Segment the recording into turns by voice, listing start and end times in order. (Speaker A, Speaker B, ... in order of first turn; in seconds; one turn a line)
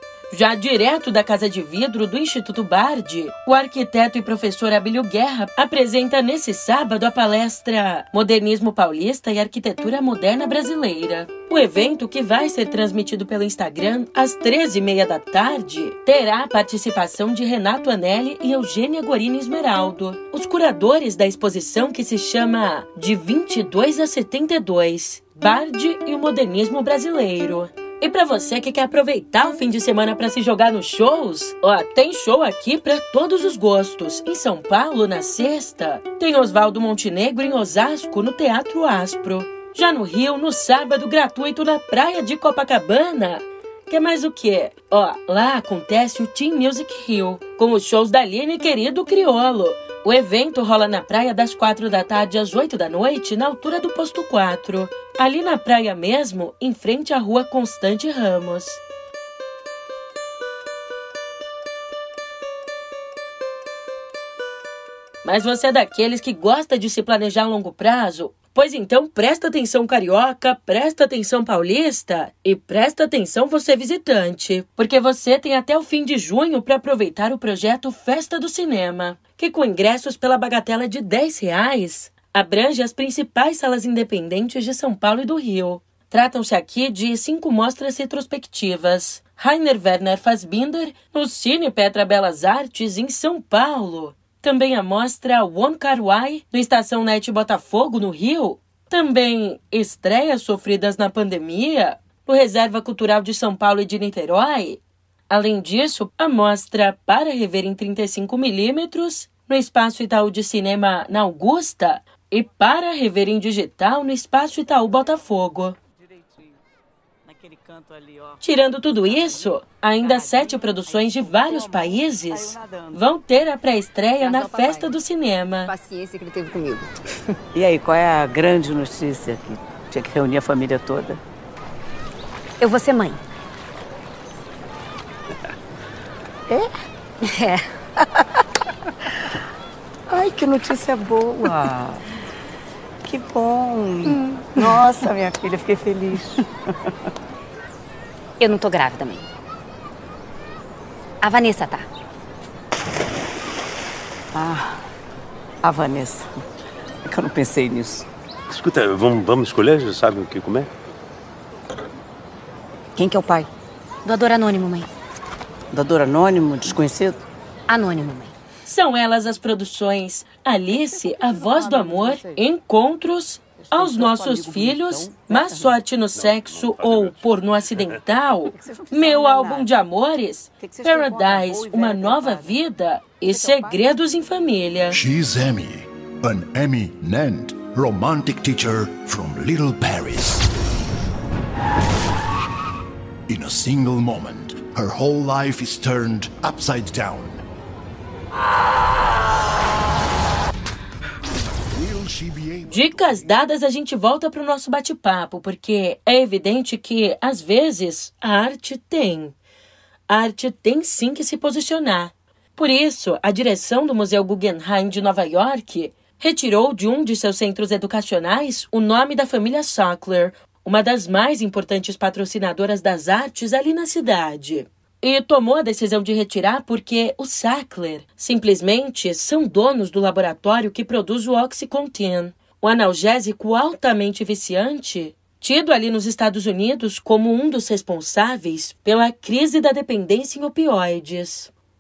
Speaker A: 0.3-58.8
Speaker A: 65.2-115.8
Speaker B: 116.1-116.5
Speaker B: 117.2-118.4
Speaker A: 118.4-125.7
Speaker B: 119.1-119.4
Speaker B: 120.0-123.0
Speaker C: 124.2-124.9
Speaker C: 125.7-127.0
Speaker B: 127.5-131.2
Speaker C: 132.6-133.2
Speaker C: 137.2-137.7
Speaker B: 140.1-142.1
Speaker B: 143.0-146.5
Speaker C: 144.1-144.9
Speaker C: 148.4-149.3
Speaker C: 151.2-151.9
Speaker B: 154.3-154.8
Speaker B: 155.6-156.4
Speaker B: 157.1-158.1
Speaker D: 158.5-160.7
Speaker B: 163.0-163.5
Speaker C: 164.0-164.9
Speaker B: 165.7-167.3
Speaker C: 167.7-168.3
Speaker A: 168.7-185.0
Speaker B: 170.9-172.4
Speaker B: 173.7-175.8
Speaker E: 176.3-177.2
Speaker B: 178.5-179.7
Speaker B: 180.6-182.6
Speaker B: 183.3-183.8
Speaker E: 184.9-190.5
Speaker E: 193.3-197.4
Speaker E: 201.7-203.4
Speaker A: 202.7-209.3
Speaker A: 210.1-241.5